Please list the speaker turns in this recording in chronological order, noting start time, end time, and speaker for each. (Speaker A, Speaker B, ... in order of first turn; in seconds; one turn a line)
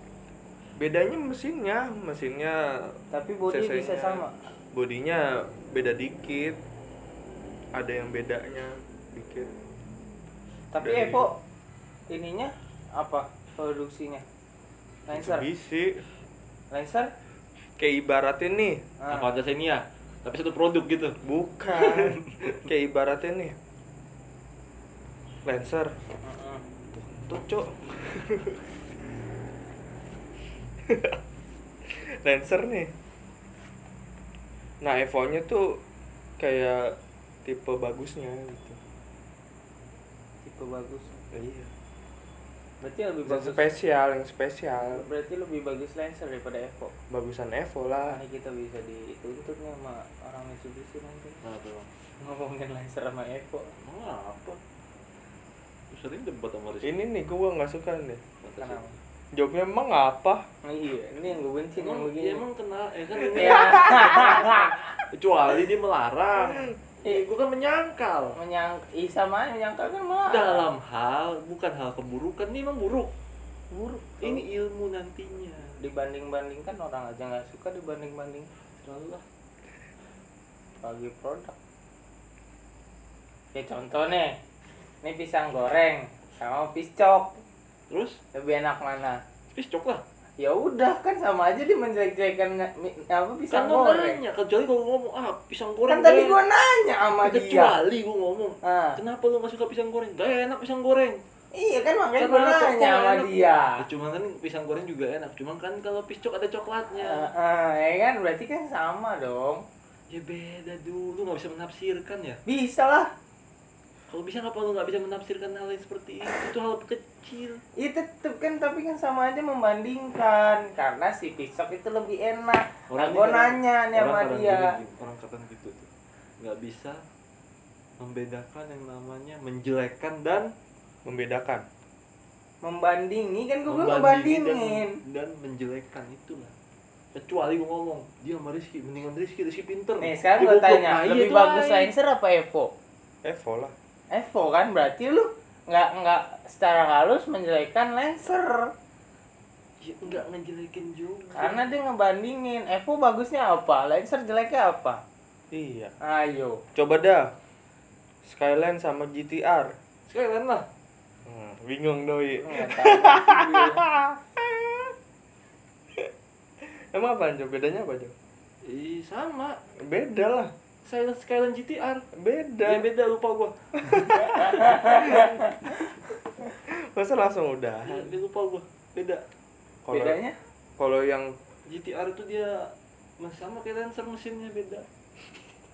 Speaker A: 0.8-3.0
Speaker B: 3.1-4.4
Speaker A: 3.5-6.6
Speaker A: 7.7-9.5
Speaker B: 10.7-11.4
Speaker A: 10.8-11.3
Speaker B: 12.1-14.3
Speaker B: 15.1-15.5
Speaker A: 15.1-16.1
Speaker B: 16.7-17.1
Speaker A: 17.8-18.8
Speaker B: 19.0-19.3
Speaker C: 19.1-21.2
Speaker A: 21.2-23.6
Speaker C: 21.7-22.5
Speaker A: 25.4-25.9
Speaker B: 26.2-26.6
Speaker A: 27.0-28.6
Speaker A: 30.9-31.2
Speaker A: 31.9-32.9
Speaker A: 34.8-35.8
Speaker A: 36.4-38.8
Speaker B: 40.4-41.2
Speaker A: 41.3-41.7
Speaker B: 42.8-43.8
Speaker A: 43.3-45.1
Speaker B: 44.8-46.9
Speaker A: 47.1-48.2
Speaker B: 48.1-51.4
Speaker C: 51.4-51.9
Speaker B: 52.2-53.7
Speaker C: 53.7-54.6
Speaker C: 55.9-57.1
Speaker A: 56.8-58.2
Speaker C: 58.4-58.8
Speaker B: 58.6-59.0
Speaker A: 59.3-60.5
Speaker B: 60.6-62.4
Speaker C: 61.8-68.4
Speaker B: 63.3-64.9
Speaker B: 68.3-70.7
Speaker C: 70.3-73.1
Speaker B: 73.7-74.5
Speaker C: 74.2-75.7
Speaker B: 75.8-78.5
Speaker C: 78.8-79.2
Speaker B: 80.8-81.5
Speaker B: 83.5-84.3
Speaker B: 85.0-87.4
Speaker C: 87.9-88.2
Speaker B: 88.3-89.2
Speaker C: 89.5-90.0
Speaker B: 90.4-94.2
Speaker C: 93.5-96.4
Speaker B: 95.9-97.8
Speaker C: 97.1-101.2
Speaker B: 98.6-99.0
Speaker B: 101.5-103.8
Speaker C: 102.2-107.3
Speaker B: 107.0-109.6
Speaker C: 110.1-112.4
Speaker B: 112.5-113.1
Speaker C: 114.1-117.6
Speaker B: 117.8-124.7
Speaker C: 122.9-125.9
Speaker C: 126.4-127.0
Speaker C: 128.0-130.5
Speaker A: 131.1-131.7
Speaker B: 132.6-135.0
Speaker C: 133.7-136.5
Speaker C: 137.1-141.9
Speaker B: 140.0-142.7
Speaker A: 143.2-143.7
Speaker B: 144.1-148.7
Speaker C: 149.8-151.7
Speaker B: 151.4-155.0
Speaker A: 155.5-155.9
Speaker B: 156.0-156.6
Speaker A: 156.8-157.3
Speaker A: 158.2-159.7
Speaker C: 160.1-160.7
Speaker A: 161.2-164.9
Speaker B: 162.4-164.0
Speaker A: 166.6-168.1
Speaker C: 168.7-169.6
Speaker A: 169.8-170.5
Speaker C: 170.8-172.1
Speaker A: 172.1-172.9
Speaker C: 172.6-174.6
Speaker A: 173.9-175.3
Speaker B: 174.2-175.8
Speaker A: 176.6-178.1
Speaker C: 177.8-179.2
Speaker A: 179.8-180.2
Speaker B: 179.9-180.4
Speaker A: 180.8-181.4
Speaker C: 181.7-182.6
Speaker C: 183.2-184.9